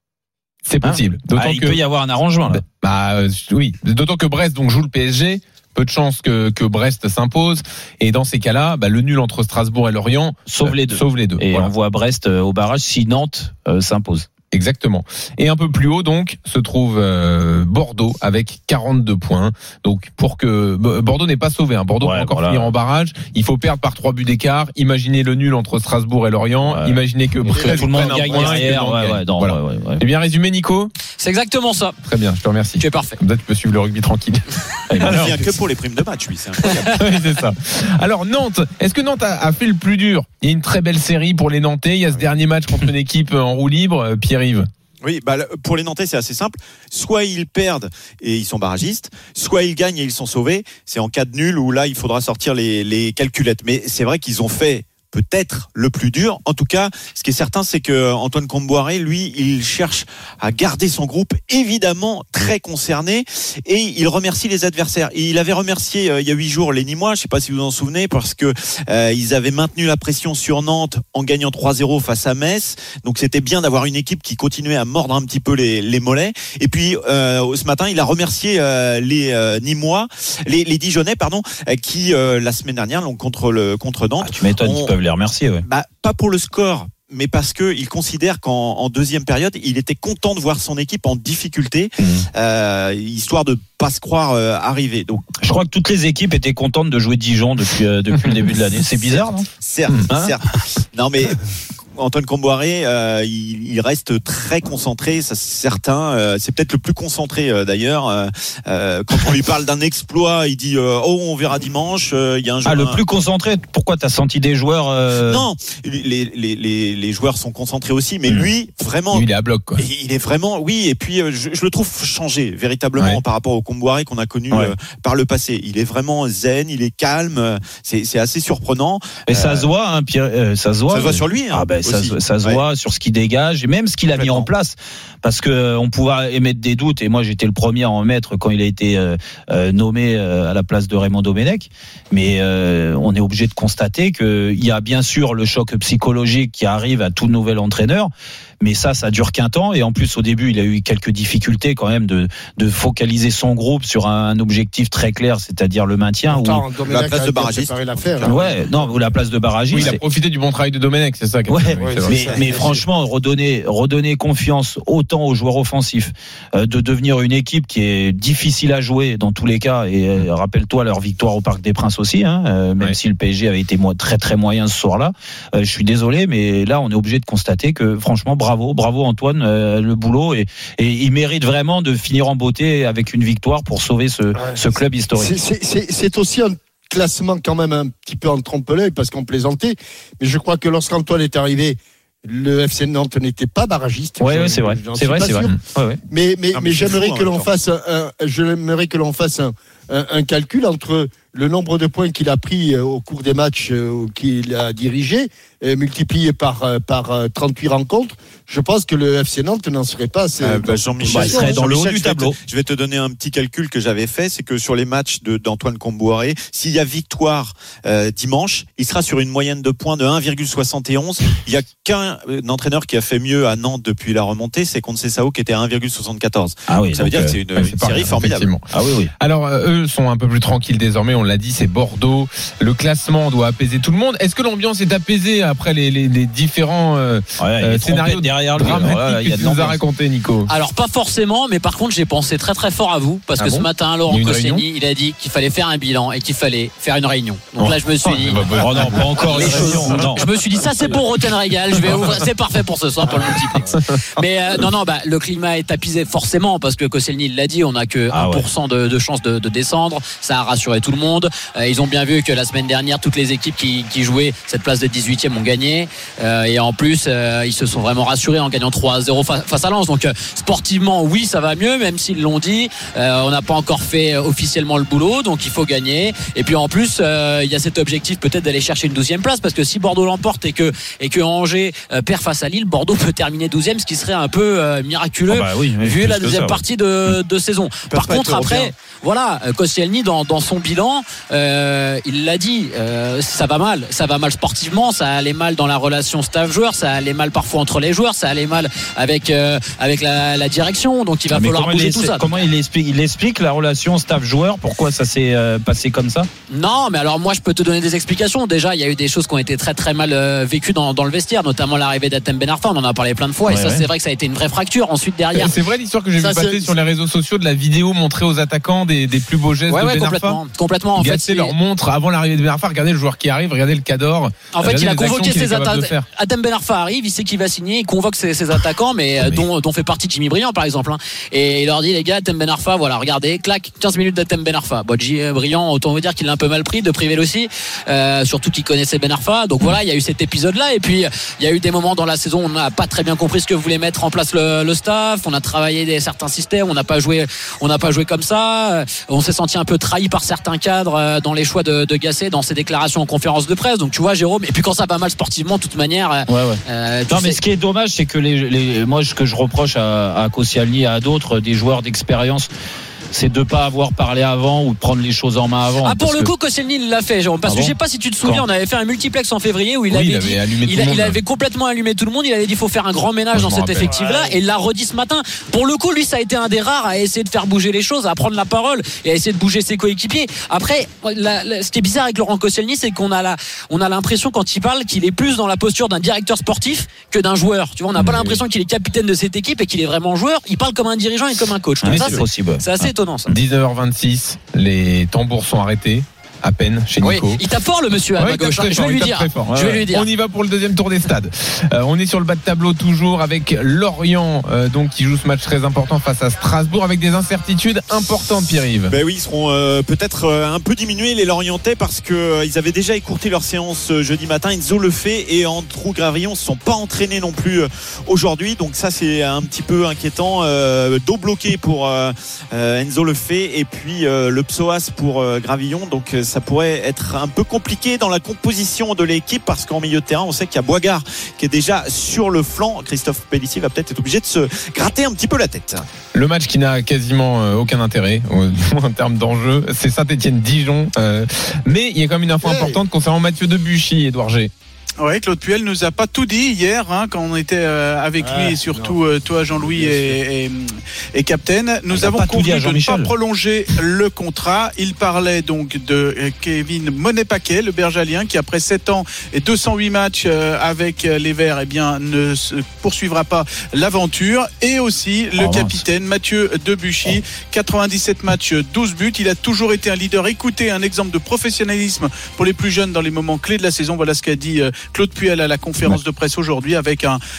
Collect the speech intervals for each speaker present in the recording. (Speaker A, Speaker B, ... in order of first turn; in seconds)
Speaker A: 0.7-1.8, 2.5-11.7, 14.5-30.9, 32.0-35.5, 36.9-44.7, 119.1-119.8, 159.7-162.4, 227.5-228.7, 229.2-240.5, 243.4-244.6, 247.6-250.0, 253.7-254.0, 315.3-320.4, 320.9-326.1, 369.9-371.2, 373.3-373.9, 391.9-392.2, 393.3-397.4, 398.1-408.9, 436.1-444.5
Speaker B: 0.8-2.6, 10.5-14.3, 22.0-22.7, 26.6-30.0, 34.9-35.2, 84.2-85.6, 92.0-92.3, 95.4-99.5, 112.6-115.5, 129.3-156.7, 158.2-160.0, 161.5-185.3, 194.2-196.0, 211.0-212.4, 226.7-227.4, 228.7-229.1, 237.4-239.8, 248.5-250.2, 258.1-258.5, 285.3-287.1, 301.3-306.3, 313.5-313.9, 356.3-362.5, 363.1-366.3, 367.4-368.4, 387.9-388.4, 391.8-392.9, 399.4-399.8, 451.9-453.1, 465.4-465.8
Speaker C: 27.5-28.7, 156.3-158.4, 161.8-162.8, 184.3-184.6, 185.1-195.5, 196.1-211.6, 316.2-316.7, 442.4-442.8, 448.2-449.0, 449.5-450.2
Speaker D: 31.2-32.0, 32.8-33.2, 240.5-248.6, 249.2-302.3, 306.5-315.5, 319.7-321.5, 324.5-357.4, 365.8-393.3, 397.0-400.1
Speaker E: 35.0-37.2, 45.0-84.9, 85.7-95.2, 99.1-101.4, 102.0-113.0, 115.2-129.7, 130.9-132.6, 134.1-134.5, 156.8-158.5, 196.5-197.5, 210.4-228.5, 287.9-288.7, 408.9-435.8
Speaker F: 445.0-477.2